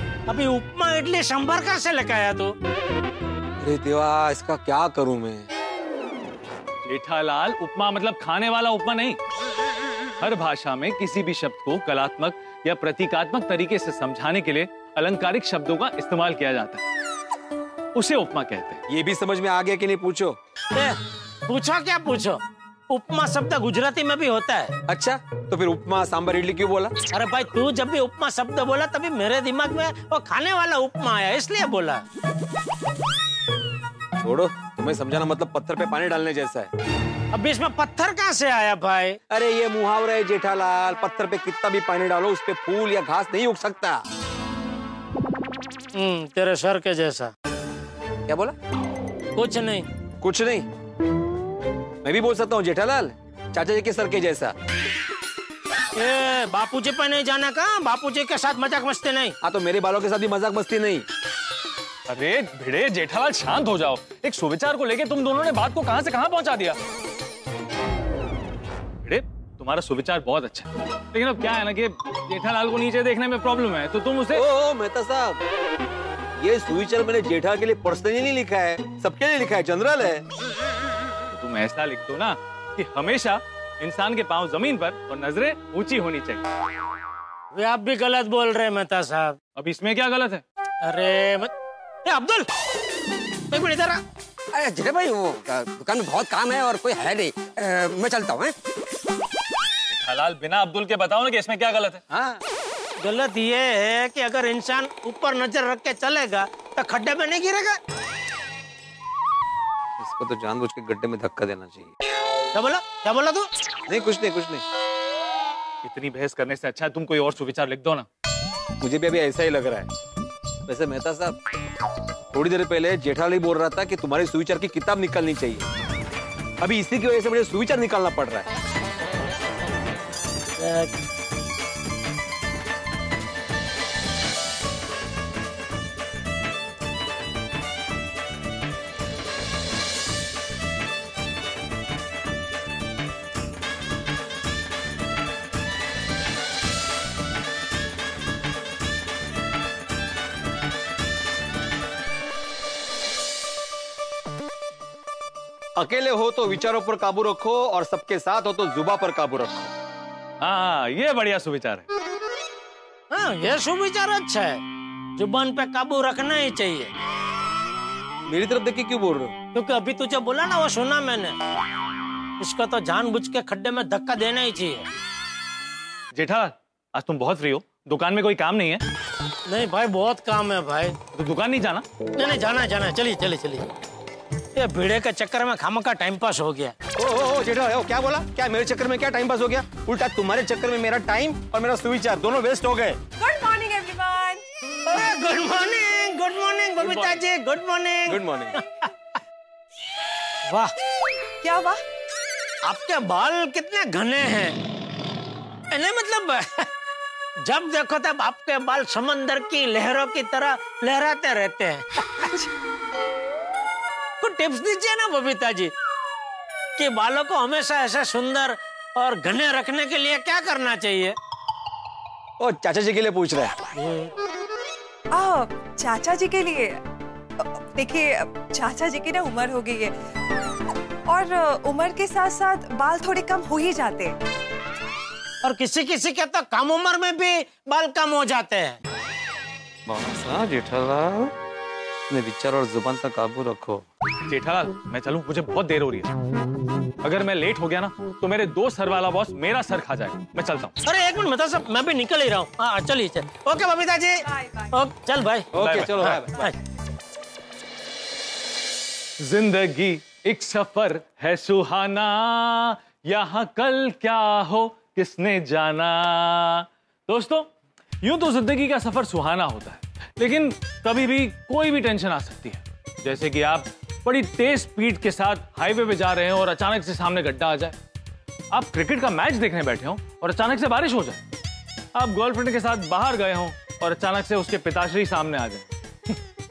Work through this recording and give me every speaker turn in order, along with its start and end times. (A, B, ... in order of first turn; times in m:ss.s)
0:00.3-0:02.6 A
0:03.6-0:05.5 B
0:06.8-0:09.2 C
0:10.2-0:16.8 C
0:17.9-0:18.8 C
0:18.9-0:20.4 B
0:21.5-0:24.7 A
0:24.9-0:26.9 B
0:27.1-0:32.0 A
0:34.2-0:36.7 B
0:37.3-0:39.2 A
0:39.3-0:44.0 B
0:46.0-0:47.3 A
0:49.4-0:49.9 A
0:50.2-0:50.6 B
0:52.0-0:54.5 B
0:56.0-0:59.4 A
0:59.4-1:01.1 B
1:02.1-1:06.8 C
1:09.0-1:14.4 C
1:14.4-1:15.4 B
1:16.4-1:20.2 B
1:21.3-1:26.4 C
1:27.5-1:29.4 A
1:29.6-1:30.4 C
1:30.8-1:31.5 A
1:32.0-1:32.5 A
1:33.5-1:34.0 A
1:34.5-1:38.5 D
1:39.9-1:42.0 C
1:43.0-1:47.8 A
1:50.0-1:51.9 B
1:52.5-1:53.5 A
1:53.9-1:54.6 B
1:55.8-1:58.1 C
1:58.8-1:59.9 B
2:00.7-2:01.4 B
2:02.3-2:05.7 B
2:06.6-2:08.5 B
2:10.6-2:10.9 A
2:35.8-2:39.7 B
2:40.4-2:41.9 C
2:43.1-2:44.6 A
2:45.2-2:46.9 A
2:48.3-2:49.3 B
2:49.5-2:51.4 A
2:52.4-2:54.9 A
2:56.1-2:58.8 C
2:59.5-3:01.0 A
3:01.1-3:01.8 C
3:02.2-3:03.7 A
3:04.6-3:06.7 A
3:07.0-3:12.9 B
3:13.2-3:14.4 E
3:14.9-3:18.6 A
3:18.1-3:18.5 B
3:20.5-3:20.7 A
3:21.4-3:21.8 E
3:22.6-3:24.6 A
3:25.7-3:26.7 A
3:27.4-3:32.0 A
3:34.2-3:35.7 A
3:36.8-3:41.2 A
3:42.4-3:43.5 B
3:43.7-3:44.1 A
3:45.1-3:46.8 E
3:47.4-3:49.9 E
3:51.1-3:54.2 E
3:55.4-3:58.8 A
4:00.1-4:01.2 B
4:02.1-4:03.8 B
4:04.3-4:06.1 C
4:07.0-4:10.8 C
4:10.8-4:14.2 A
4:14.3-4:14.7 E
4:14.7-4:16.5 A
4:15.6-4:16.3 B
4:15.6-4:16.2 C
4:19.2-4:27.5 C
4:28.0-4:37.8 C
4:38.5-4:41.2 C
4:42.0-4:45.7 C